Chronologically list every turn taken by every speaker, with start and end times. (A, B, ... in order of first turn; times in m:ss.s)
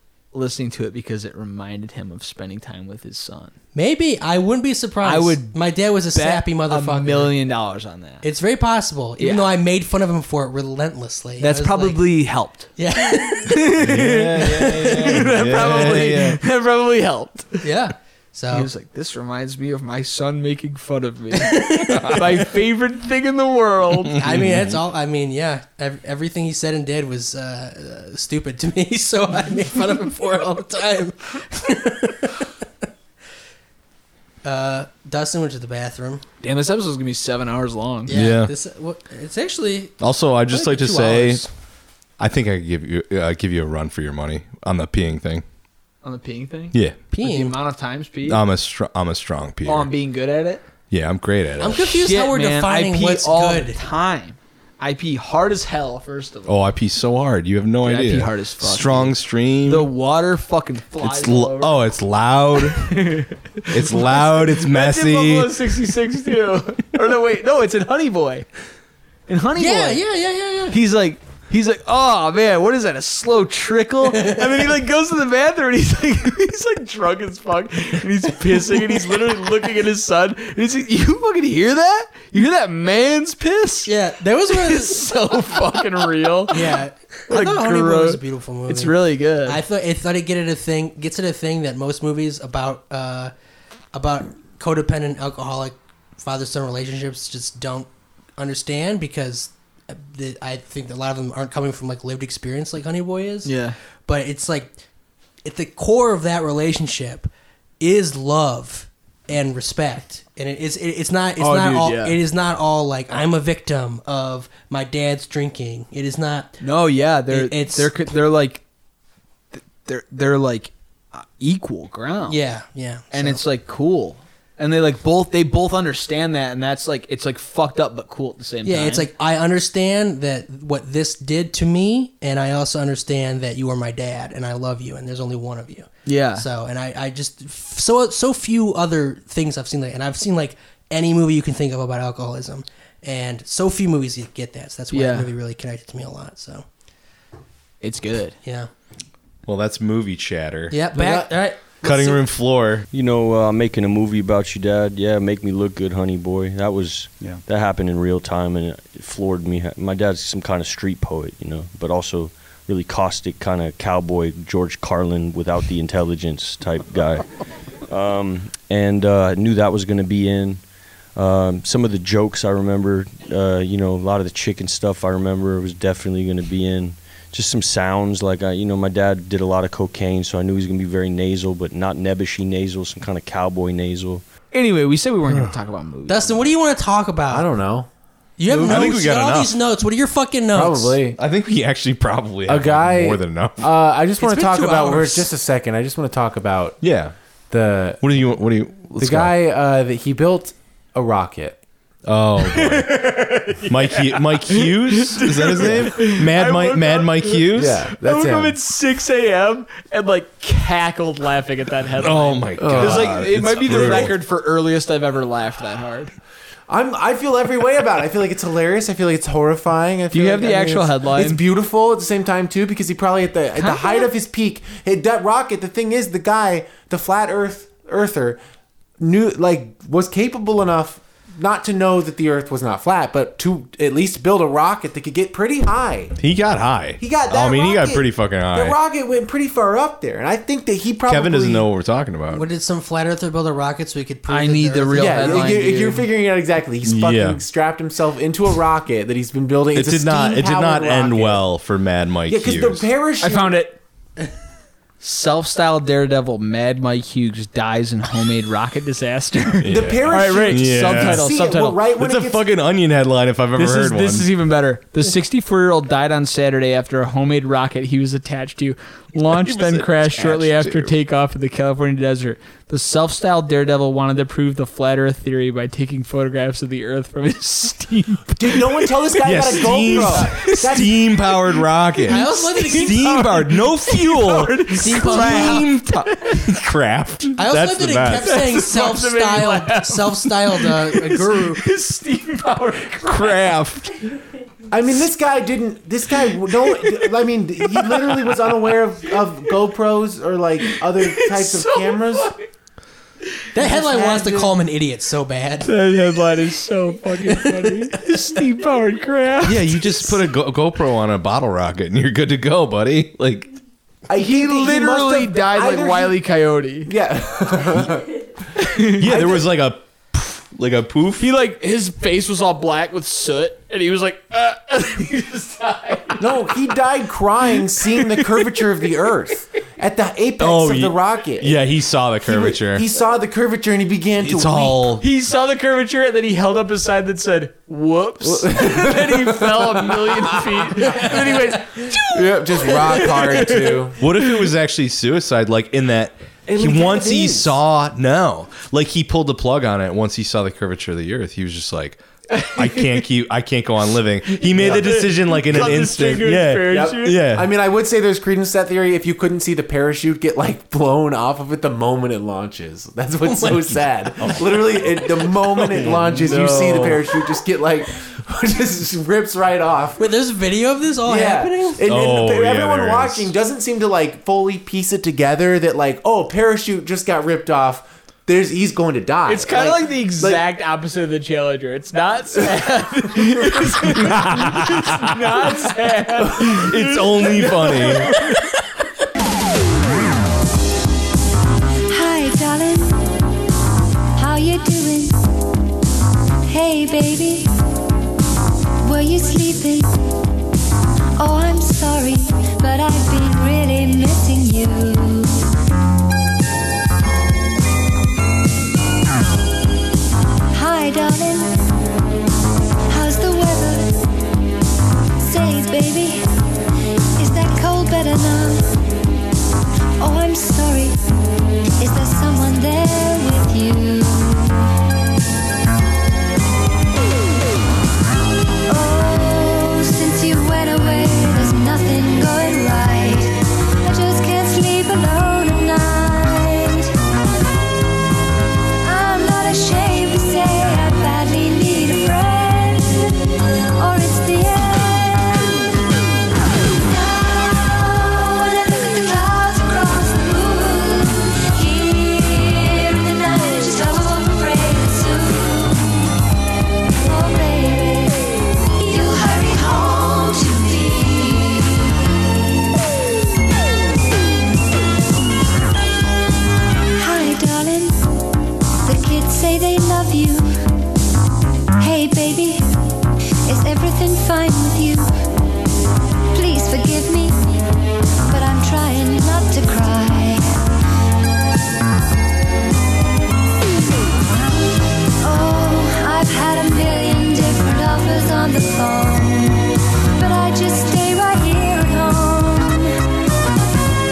0:00.3-0:03.5 A
0:03.7-0:07.3 B
0:05.0-0:05.6 A
0:06.1-0:08.2 A
0:08.2-0:12.0 B
0:09.2-0:09.5 A
0:11.4-0:17.6 A
0:12.8-0:13.7 B
0:13.8-0:16.4 C
0:14.5-0:16.0 B
0:17.6-0:18.7 B
0:18.5-0:24.2 A
0:21.3-0:22.4 B
0:24.2-0:32.5 B
0:24.2-0:24.8 C
0:34.4-0:36.2 B
0:36.4-0:38.1 A
0:38.1-0:41.5 B
0:38.1-0:38.5 C
0:40.0-0:41.4 C
0:42.2-0:45.4 C
0:46.0-0:48.4 A
0:46.7-0:47.0 C
0:47.1-0:47.5 B
0:48.2-0:49.9 C
0:49.6-0:50.6 A
0:50.9-0:51.8 C
0:51.6-0:53.8 B
0:51.7-0:56.6 A
0:56.5-0:59.9 C
0:57.8-1:01.8 A
1:01.0-1:03.0 C
1:02.6-1:08.5 A
1:03.7-1:05.8 C
1:09.3-1:10.0 A
1:09.6-1:10.8 B
1:10.7-1:23.9 A
1:14.1-1:14.5 B
1:23.8-1:25.0 B
1:24.5-1:29.6 A
1:26.5-1:28.9 B
1:29.4-1:33.3 B
1:33.9-1:43.5 B
1:43.4-1:43.8 A
1:44.1-1:44.7 B
1:45.4-1:56.6 B
1:51.4-1:52.2 A
1:56.6-1:58.6 A
1:57.3-1:57.9 B
1:59.5-2:02.4 A
2:02.3-2:03.4 B
2:03.1-2:09.1 A
2:08.6-2:26.6 B
2:16.0-2:16.4 A
2:24.9-2:25.3 A
2:27.8-2:28.4 A
2:28.4-2:28.7 B
2:29.4-2:30.8 C
2:30.7-2:32.2 B
2:30.9-2:32.1 D
2:31.8-2:32.9 C
2:32.9-2:47.3 E
2:47.9-2:50.6 E
2:51.2-3:04.2 E
3:04.5-3:06.4 A
3:06.1-3:07.4 B
3:07.3-3:07.9 D
3:08.4-3:11.0 B
3:08.5-3:08.9 D
3:08.6-3:09.6 C
3:10.5-3:11.2 D
3:11.2-3:13.7 C
3:12.5-3:16.8 D
3:14.2-3:15.3 B
3:16.8-3:17.1 C
3:17.5-3:18.0 D
3:18.0-3:19.3 C
3:19.0-3:21.6 D
3:22.0-3:27.9 C
3:22.4-3:36.1 A
3:27.5-3:28.6 D
3:32.0-3:34.2 C
3:32.6-3:34.1 D
3:36.7-3:48.4 D
3:40.1-3:41.4 A
3:43.6-3:44.1 A
3:49.0-3:56.1 D
3:56.2-3:58.8 C
3:57.0-4:01.7 D
4:01.0-4:02.4 C
4:02.3-4:05.6 B
4:04.3-4:06.1 A
4:05.0-4:11.5 D
4:06.8-4:07.4 C
4:09.7-4:12.9 C
4:12.3-4:13.6 D
4:13.2-4:13.8 A
4:15.0-4:21.8 A
4:19.6-4:21.3 C
4:19.7-4:22.4 D
4:21.9-4:24.3 C
4:23.6-4:46.5 A
4:29.2-4:31.0 C
4:38.4-4:41.0 D
4:39.2-4:48.4 C
4:42.1-4:43.2 B
4:44.7-4:45.7 B
4:47.4-4:51.6 B
4:48.2-4:53.6 A
4:53.0-4:53.9 C
4:54.7-5:02.3 D
4:56.2-4:59.5 A
5:00.7-5:02.4 A
5:03.5-5:05.7 B
5:03.6-5:04.6 D
5:05.6-5:10.2 A
5:07.3-5:07.9 B
5:09.4-5:13.5 C
5:14.1-5:16.2 D
5:14.2-5:16.9 A
5:16.8-5:18.2 D
5:18.6-5:19.1 A
5:18.9-5:21.3 C
5:19.0-5:19.4 D
5:21.2-5:26.6 A
5:26.2-5:31.6 D
5:27.8-5:28.7 A
5:30.4-5:32.8 C
5:32.2-5:34.8 D
5:34.2-5:35.0 C
5:35.0-5:44.5 A
5:38.2-5:41.2 D
5:42.1-5:44.0 D
5:44.0-5:57.6 C
5:46.5-5:47.6 D
5:52.3-5:53.0 A
5:54.2-5:57.2 A
5:54.6-5:54.9 D
5:56.7-6:10.0 D
6:04.2-6:06.3 C
6:06.2-6:07.0 A
6:10.0-6:11.8 B
6:11.1-6:20.4 D
6:11.8-6:13.3 C
6:19.2-6:28.6 A
6:23.9-6:25.2 C
6:26.5-6:28.1 C
6:31.9-6:33.0 F
6:34.2-6:35.2 F
6:36.4-6:37.5 F
6:38.8-6:39.9 F
6:41.2-6:45.4 F
6:50.5-6:51.5 F
6:52.9-6:53.9 F
6:55.2-6:56.2 F
6:57.2-6:58.6 F
7:00.0-7:01.0 F
7:01.8-7:04.6 F
7:08.7-7:16.9 F
7:18.8-7:23.2 F
7:23.8-7:25.5 F
7:26.7-7:36.0 F
7:37.0-7:41.9 F
7:47.0-7:48.0 F
7:48.8-7:50.5 F
7:51.8-7:52.7 F
7:53.4-7:55.1 F
7:56.3-7:57.4 F
7:58.2-8:00.5 F
8:05.2-8:12.9 F